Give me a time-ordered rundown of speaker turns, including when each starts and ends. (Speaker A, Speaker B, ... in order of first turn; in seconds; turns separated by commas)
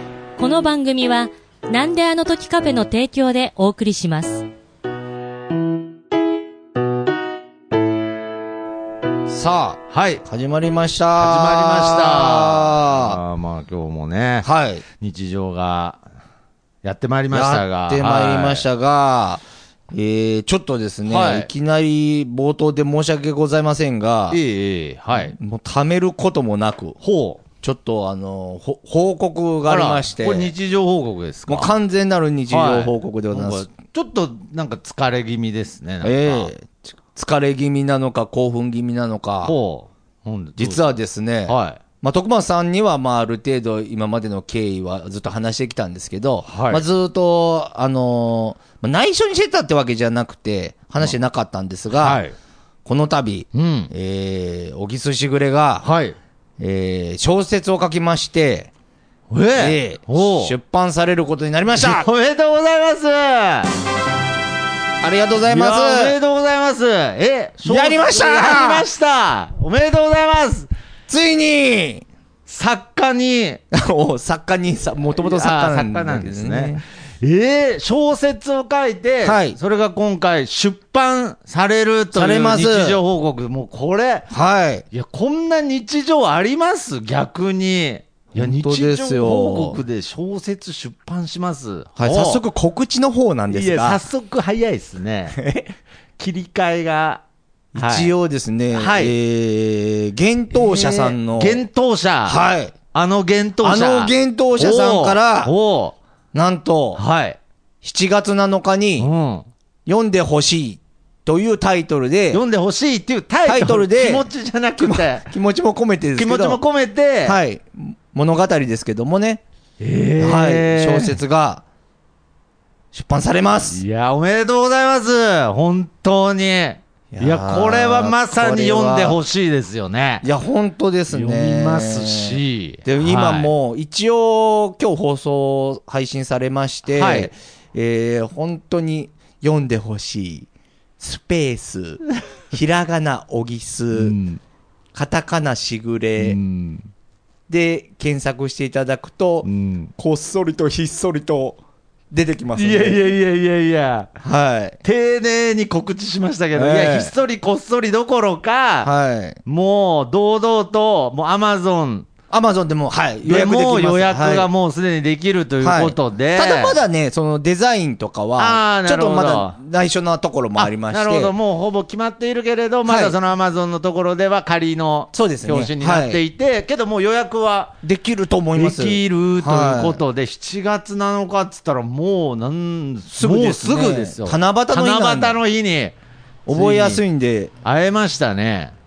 Speaker A: 0.4-4.5, Speaker B: 9.3-13.2, Speaker C: 9.9-10.2, Speaker C: 11.2-14.5, Speaker B: 14.4-14.8, Speaker C: 15.0-16.0, Speaker C: 16.8-18.7, Speaker B: 17.3-24.4, Speaker C: 21.1-21.5, Speaker C: 24.3-25.4, Speaker B: 25.1-27.0, Speaker C: 27.0-27.4, Speaker B: 27.6-30.5, Speaker C: 29.7-31.7, Speaker B: 31.5-33.7, Speaker C: 32.5-36.5, Speaker B: 36.0-39.5, Speaker C: 39.4-40.9, Speaker B: 40.6-52.2, Speaker C: 41.5-41.8, Speaker C: 46.5-46.8, Speaker C: 51.9-52.4, Speaker B: 52.9-55.9, Speaker C: 53.5-53.9, Speaker C: 55.8-56.2, Speaker B: 56.6-58.7, Speaker C: 59.3-60.5, Speaker B: 59.6-62.1, Speaker C: 61.7-63.7, Speaker B: 65.0-66.2, Speaker C: 65.5-70.7, Speaker B: 67.7-68.9, Speaker B: 71.1-72.0, Speaker C: 72.5-73.6, Speaker B: 73.7-76.8, Speaker C: 75.2-84.3, Speaker B: 79.2-79.6, Speaker B: 82.1-83.0, Speaker B: 84.3-84.8, Speaker C: 84.9-92.4, Speaker B: 88.3-89.8, Speaker B: 92.0-94.0, Speaker C: 93.5-95.4, Speaker B: 95.3-95.7, Speaker C: 96.2-97.2, Speaker B: 97.7-101.6, Speaker C: 97.8-98.1, Speaker C: 98.7-99.2, Speaker C: 100.5-102.4, Speaker B: 102.3-102.8, Speaker C: 102.9-106.0, Speaker B: 103.6-105.5, Speaker B: 106.3-107.0, Speaker C: 107.0-107.4, Speaker B: 107.8-109.1, Speaker C: 109.0-109.5, Speaker B: 109.9-112.4, Speaker C: 112.3-115.3, Speaker B: 113.5-114.2, Speaker B: 114.8-116.6, Speaker C: 116.2-117.4, Speaker B: 117.3-119.4, Speaker C: 119.8-121.2, Speaker B: 120.2-121.6, Speaker B: 122.9-123.8, Speaker C: 123.7-130.3, Speaker B: 127.1-129.2, Speaker B: 130.2-140.5, Speaker C: 131.1-133.5, Speaker C: 136.8-137.3, Speaker B: 141.0-144.2, Speaker C: 143.9-144.4, Speaker B: 144.9-146.4, Speaker C: 146.2-146.9, Speaker B: 147.5-151.6, Speaker C: 149.4-149.9, Speaker B: 152.1-153.0, Speaker C: 152.6-154.1, Speaker B: 154.2-154.8, Speaker C: 154.8-158.9, Speaker B: 156.5-157.1, Speaker B: 158.8-159.4, Speaker C: 159.4-162.1, Speaker B: 162.3-164.5, Speaker C: 163.2-166.8, Speaker B: 165.6-171.3, Speaker C: 168.4-169.6, Speaker C: 170.6-177.8, Speaker B: 172.9-173.2, Speaker B: 175.1-176.2, Speaker B: 177.8-180.0, Speaker C: 178.6-185.9, Speaker B: 183.1-185.4, Speaker B: 186.5-187.5, Speaker C: 186.5-187.0, Speaker C: 187.6-188.8